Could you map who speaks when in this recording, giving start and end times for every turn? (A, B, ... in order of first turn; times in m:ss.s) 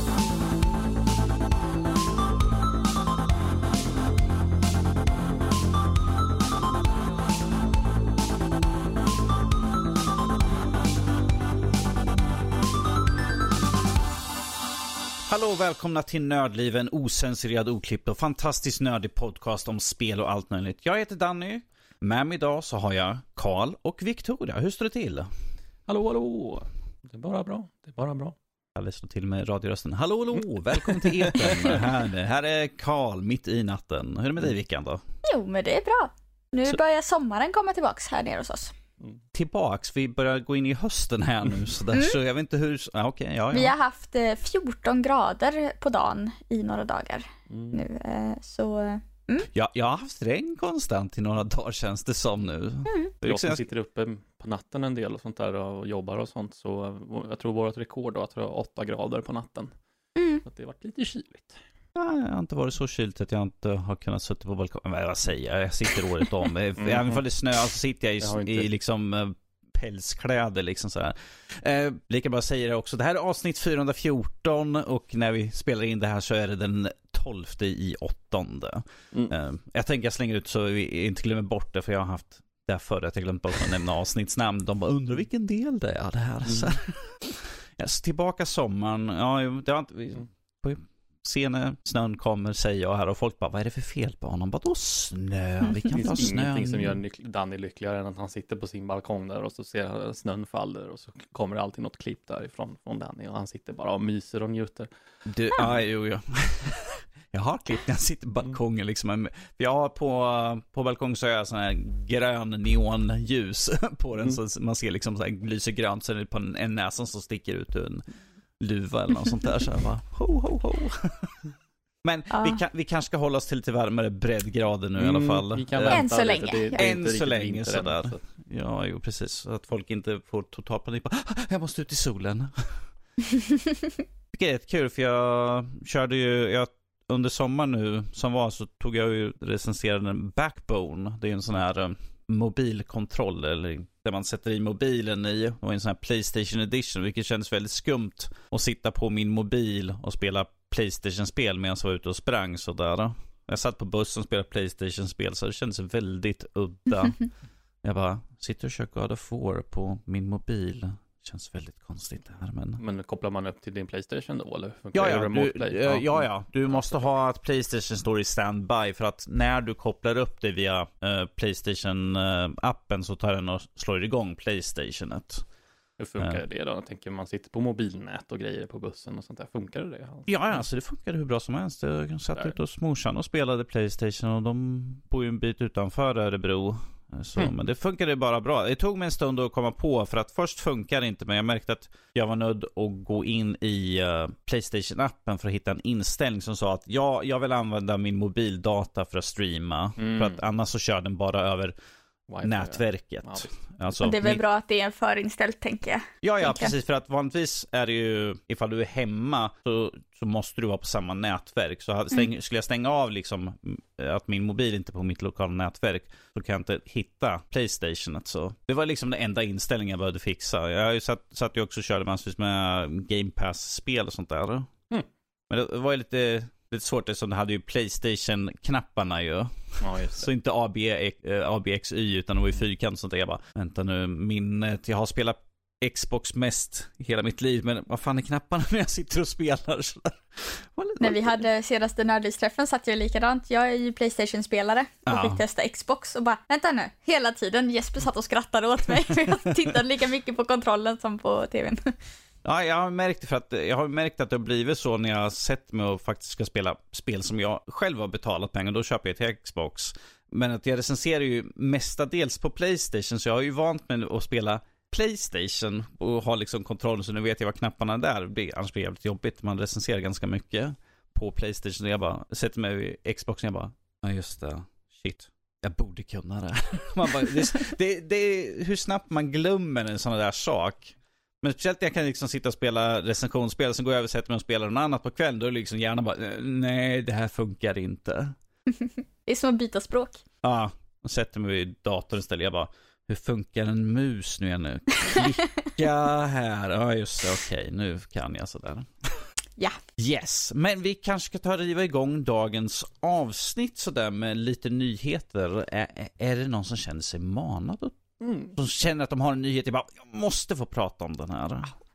0:15.2-0:25.3 A
0:25.9-0:28.4 B
0:28.8-0:35.0 A
0:30.8-0:31.9 B
0:35.2-0:38.7 C
0:39.3-0:43.7 A
0:43.5-0:49.5 C
0:47.5-0:47.8 B
0:49.5-0:53.6 A
0:52.9-0:53.1 C
0:53.2-0:59.7 B
1:00.2-1:00.4 C
1:00.4-1:01.6 B
1:02.0-1:37.0 A
1:06.8-1:07.2 B
1:08.2-1:08.7 B
1:26.4-1:26.8 B
1:35.9-1:44.9 B
1:45.3-1:58.0 A
1:58.6-2:01.4 A
2:02.0-2:12.9 A
2:02.3-2:02.6 C
2:05.0-2:08.2 B
2:05.9-2:06.9 C
2:13.3-2:13.7 C
2:14.3-2:37.3 A
2:37.8-2:42.8 A
2:42.8-2:47.1 B
2:44.9-2:55.4 A
2:56.0-3:00.6 B
3:00.3-3:21.7 A
3:20.0-3:20.4 B
3:22.3-3:24.0 B
3:22.4-3:24.4 A
3:24.0-3:26.7 C
3:26.2-3:44.7 A
3:45.5-4:01.4 A
3:49.8-3:50.3 B
4:01.0-4:11.9 C
4:05.0-4:05.4 A
4:12.4-4:48.4 A
4:48.7-4:50.2 C
4:50.4-4:59.3 A
5:00.0-5:08.0 A
5:08.2-5:08.6 B
5:08.5-5:11.7 A